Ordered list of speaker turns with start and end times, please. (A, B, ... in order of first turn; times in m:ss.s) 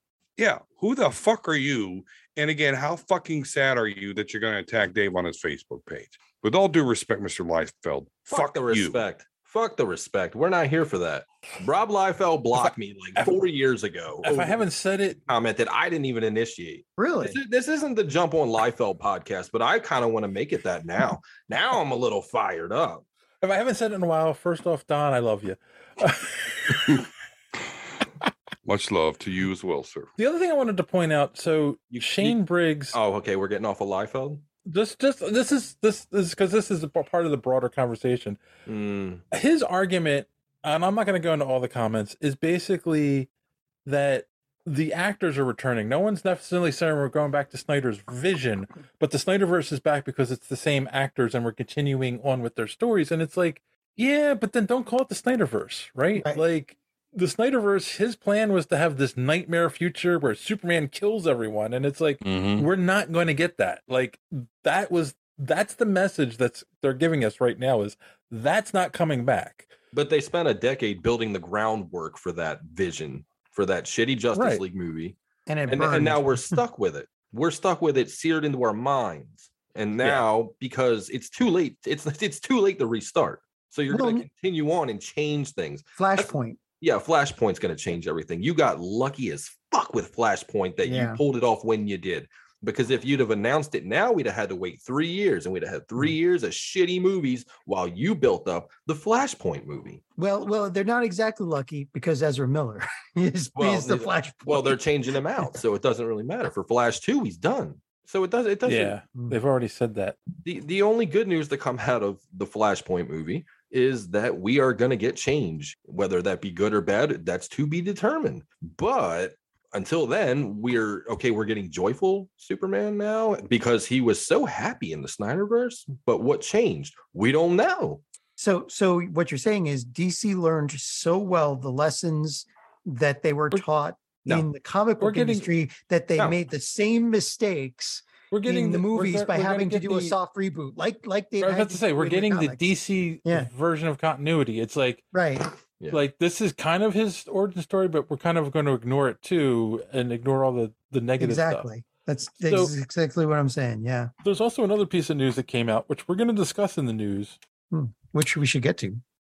0:00.4-0:09.0 A
0:08.3-0:14.6 B
0:14.2-0:15.2 C
0:15.2-0:23.0 B
0:17.0-0:17.4 D
0:23.4-0:27.0 C
0:28.6-0:30.1 A
0:30.2-0:33.0 C
0:31.9-0:32.4 B
0:32.9-0:34.4 B
0:34.6-0:38.4 C
0:38.6-0:39.2 B
0:39.3-0:43.3 C
0:43.8-1:09.7 C
0:56.2-0:56.4 D
1:02.2-1:02.7 A
1:09.9-1:15.2 B
1:14.3-1:14.6 C
1:15.5-1:16.6 D
1:15.7-1:40.0 B
1:23.9-1:24.2 D
1:26.0-1:26.6 D
1:30.8-1:31.2 D
1:40.2-1:44.8 D
1:43.6-1:49.0 B
1:48.6-1:50.2 C
1:50.4-2:08.0 B
2:08.4-2:22.6 D
2:15.0-2:15.5 C
2:18.3-2:20.2 C
2:21.4-2:25.0 C
2:25.1-2:25.5 D
2:25.9-2:31.7 C
2:31.2-2:34.1 D
2:32.4-2:32.7 C
2:34.2-2:37.4 C
2:37.7-2:39.0 D